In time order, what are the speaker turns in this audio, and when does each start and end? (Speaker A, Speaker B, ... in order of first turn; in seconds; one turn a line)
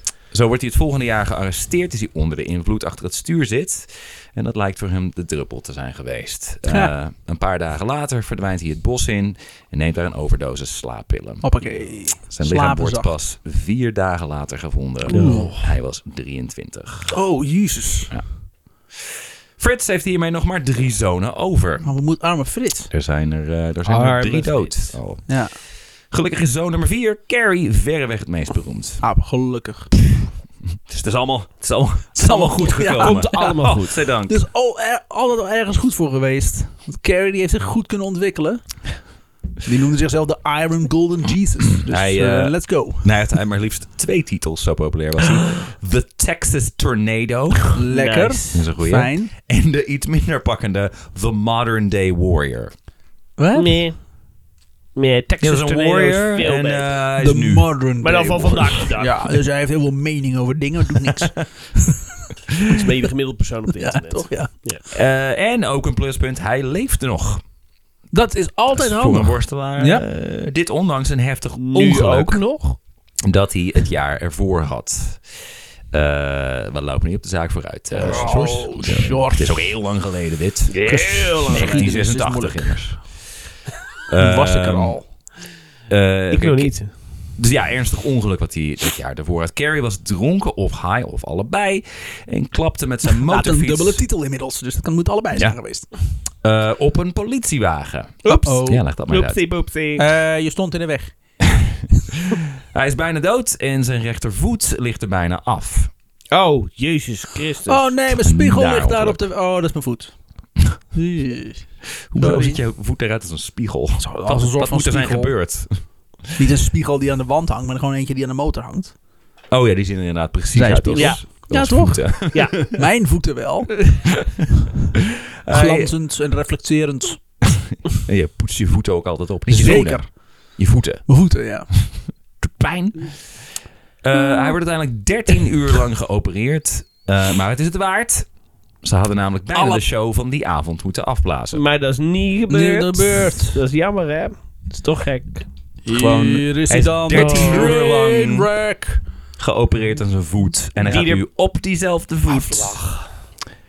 Speaker A: 0.3-17.1
Speaker B: 6.7-6.9
Speaker B: 11.4-13.1
Speaker B: 15.1-15.7
Speaker C: 15.1-15.5
Speaker B: 17.1-18.2
Speaker A: 19.6-21.9
Speaker B: 21.8-22.9
Speaker A: 22.9-29.0
Speaker C: 23.9-25.0
Speaker B: 25.3-25.6
Speaker B: 29.0-29.9
Speaker A: 30.9-34.4
Speaker B: 32.2-38.9
Speaker C: 32.9-34.0
Speaker B: 39.6-43.2
Speaker A: 41.9-47.7
Speaker B: 47.8-49.3
Speaker C: 47.9-48.6
Speaker A: 48.5-52.7
Speaker B: 53.4-53.8
Speaker C: 53.5-54.0
Speaker C: 55.0-57.0
Speaker A: 55.4-57.8
Speaker B: 57.2-62.0
Speaker C: 58.0-59.4
Speaker C: 62.7-64.8
Speaker B: 63.8-64.5
Speaker A: 64.9-67.4
Speaker B: 68.1-70.0
Speaker A: 68.7-72.6
Speaker C: 71.6-72.8
Speaker A: 73.2-80.8
Speaker B: 78.0-79.7
Speaker C: 78.0-78.5
Speaker C: 80.7-82.0
Speaker B: 80.8-83.0
Speaker A: 81.5-83.3
Speaker A: 84.1-85.2
Speaker B: 84.2-85.1
Speaker A: 85.9-94.0
Speaker C: 86.3-86.9
Speaker B: 93.2-95.9
Speaker A: 96.4-99.4
Speaker B: 98.2-98.9
Speaker C: 99.1-100.1
Speaker B: 100.0-101.3
Speaker A: 102.7-105.9
Speaker C: 106.3-107.9
Speaker B: 107.7-110.2
Speaker A: 108.1-109.2
Speaker B: 110.9-112.6
Speaker A: 112.1-115.8
Speaker B: 114.0-115.3
Speaker B: 116.3-119.0
Speaker A: 119.5-122.6
Speaker B: 120.5-124.1
Speaker C: 121.0-121.2
Speaker C: 122.3-122.7
Speaker A: 125.5-125.9
Speaker B: 125.5-127.3
Speaker A: 127.9-131.1
Speaker B: 129.5-131.7
Speaker A: 132.4-138.3
Speaker A: 138.8-141.6
Speaker B: 139.5-139.8
Speaker C: 141.5-145.5
Speaker B: 142.5-143.6
Speaker B: 145.8-149.0
Speaker A: 145.9-148.5
Speaker C: 147.1-147.7
Speaker A: 149.4-152.8
Speaker C: 150.8-151.2
Speaker C: 152.5-152.9